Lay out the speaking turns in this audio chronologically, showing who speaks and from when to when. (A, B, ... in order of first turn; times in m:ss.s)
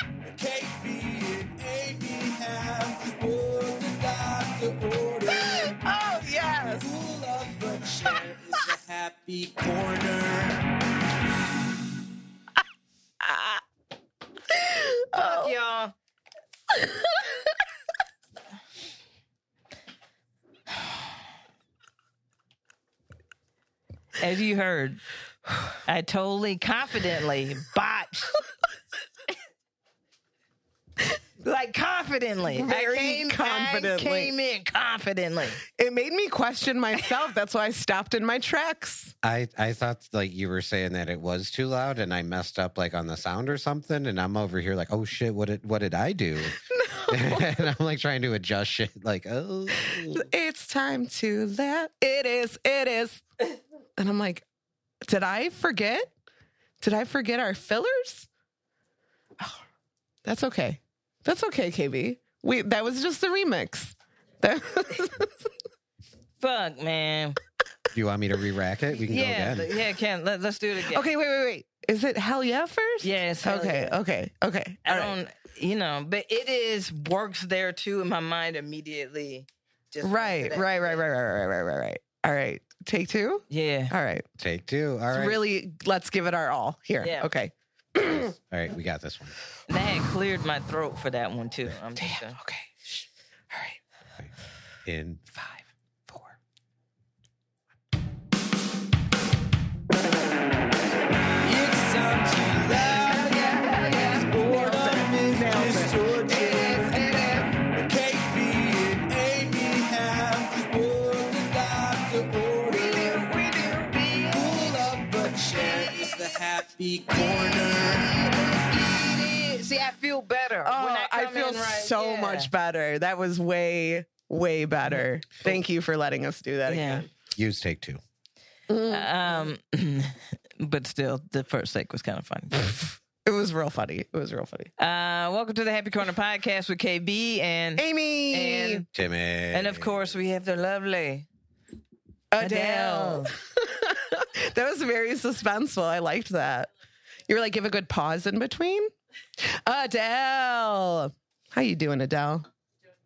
0:00.2-0:05.8 A
0:05.3-0:06.9 B
0:06.8-0:10.7 A
0:13.2-0:13.6 B
0:14.5-0:15.6 B
0:15.2-0:15.9 C
0:16.7-0:17.5 B
0:24.2-0:25.0 C
0:25.9-0:28.4 C
0:31.4-0:35.6 C
0:32.4-0:34.3 B
0:35.7-0:39.1 B
0:39.2-0:46.6 D
0:46.5-0:47.7 B
0:47.1-0:50.3 D
0:49.8-0:53.2 B
0:54.0-0:54.4 B
0:55.0-0:56.1 B
0:56.8-0:58.3 B
1:00.2-1:05.5 B
1:06.4-1:07.4 C
1:07.9-1:09.8 D
1:09.1-1:11.1 C
1:10.8-1:15.2 B
1:13.0-1:14.0 C
1:14.8-1:21.0 C
1:20.0-1:24.2 B
1:23.5-1:23.9 C
1:24.4-1:25.4 D
1:25.1-1:28.3 B
1:27.0-1:27.3 C
1:28.5-1:29.4 D
1:29.7-1:32.4 C
1:32.0-1:33.8 B
1:34.8-1:35.3 D
1:41.4-1:53.2 A
1:43.0-1:47.6 C
1:44.5-1:45.9 B
1:52.7-1:55.0 C
1:54.3-1:58.2 A
1:57.7-2:02.5 C
2:00.6-2:07.1 B
2:06.7-2:07.1 C
2:07.4-2:08.0 D
2:08.7-2:09.5 B
2:08.9-2:12.8 C
2:13.2-2:14.7 B
2:14.8-2:18.9 C
2:17.8-2:18.8 B
2:19.0-2:20.1 D
2:19.5-2:21.3 C
2:22.3-2:26.7 B
2:22.4-2:23.3 C
2:27.3-2:32.5 B